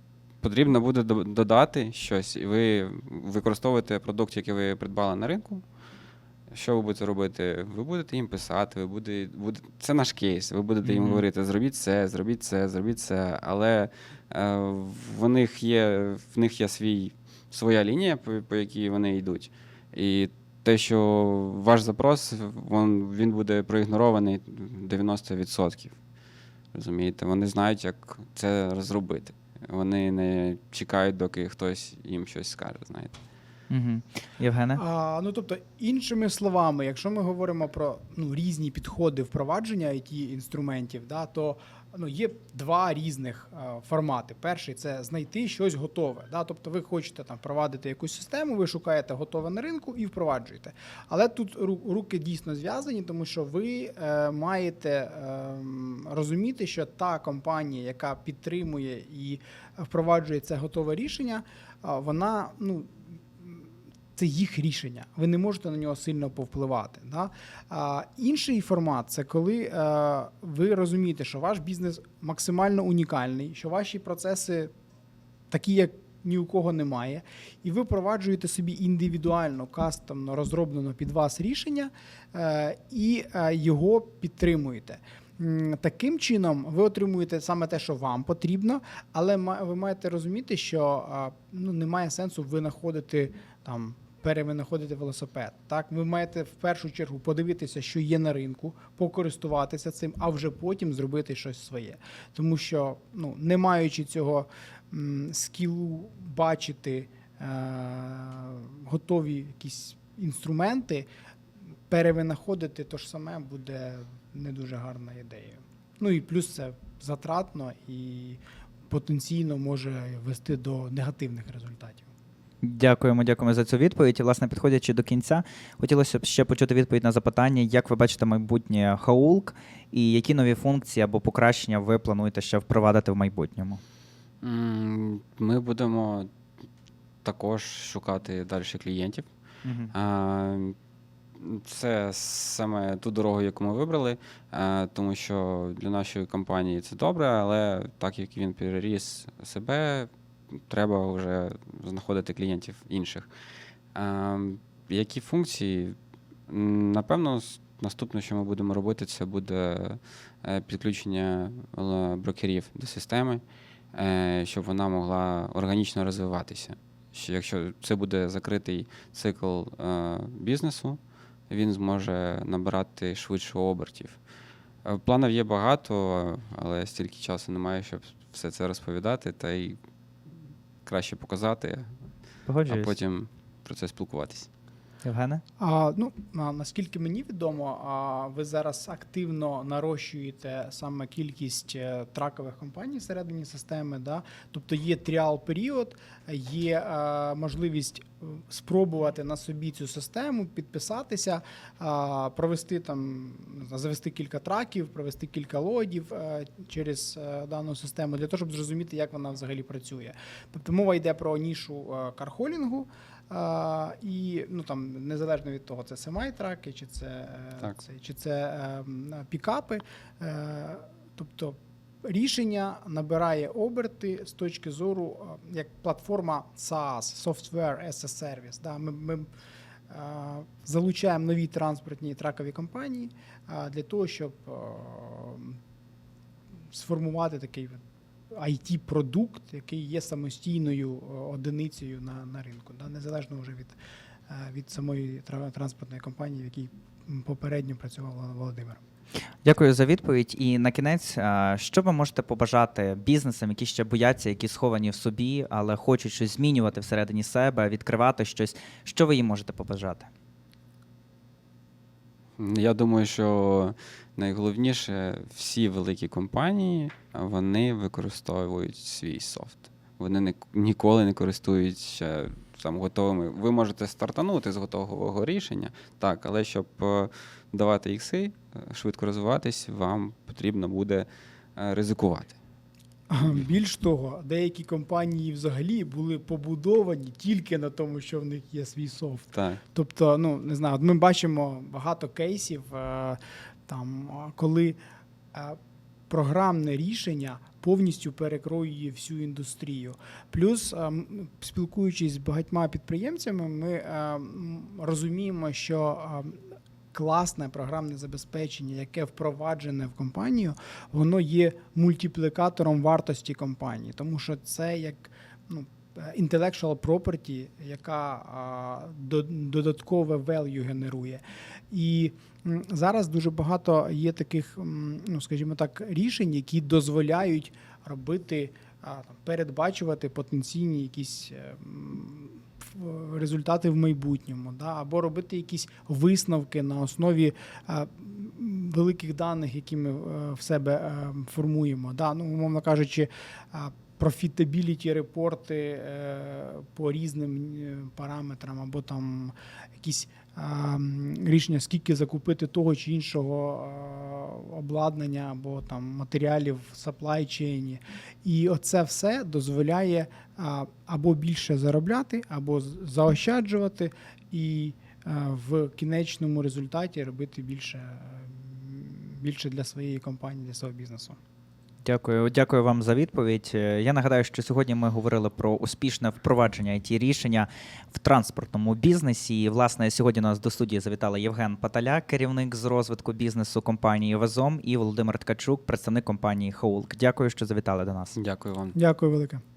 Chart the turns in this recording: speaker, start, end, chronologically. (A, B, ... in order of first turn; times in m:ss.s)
0:00.4-0:05.6 A
0:06.5-0:26.0 A
0:10.8-0:11.2 B
0:26.7-0:33.2 A
0:33.7-0:34.8 B
0:34.7-1:14.7 C
1:15.5-1:51.1 C
1:51.9-2:02.1 C
2:02.6-2:13.8 B
2:14.4-2:16.3 A
2:17.2-2:19.3 A
2:19.6-2:19.9 B
2:19.9-2:20.8 A
2:21.4-2:33.3 A
2:33.9-2:36.0 A
2:36.5-2:54.2 A
2:54.8-2:59.8 A
3:00.8-3:01.9 A
3:02.4-3:02.9 B
3:02.6-3:04.5 A
3:05.0-3:05.4 B
3:05.6-3:49.3 C
3:49.9-3:55.6 C
3:56.7-4:03.8 C
4:04.3-4:08.8 C
4:09.4-4:20.1 B
4:22.4-4:42.4 A
4:43.1-4:54.8 C
4:43.2-4:43.5 A
4:49.3-4:49.6 A
4:56.1-5:06.4 C
5:06.9-6:11.2 C
6:11.8-6:28.2 B
6:28.1-6:28.8 A
6:28.7-6:29.4 C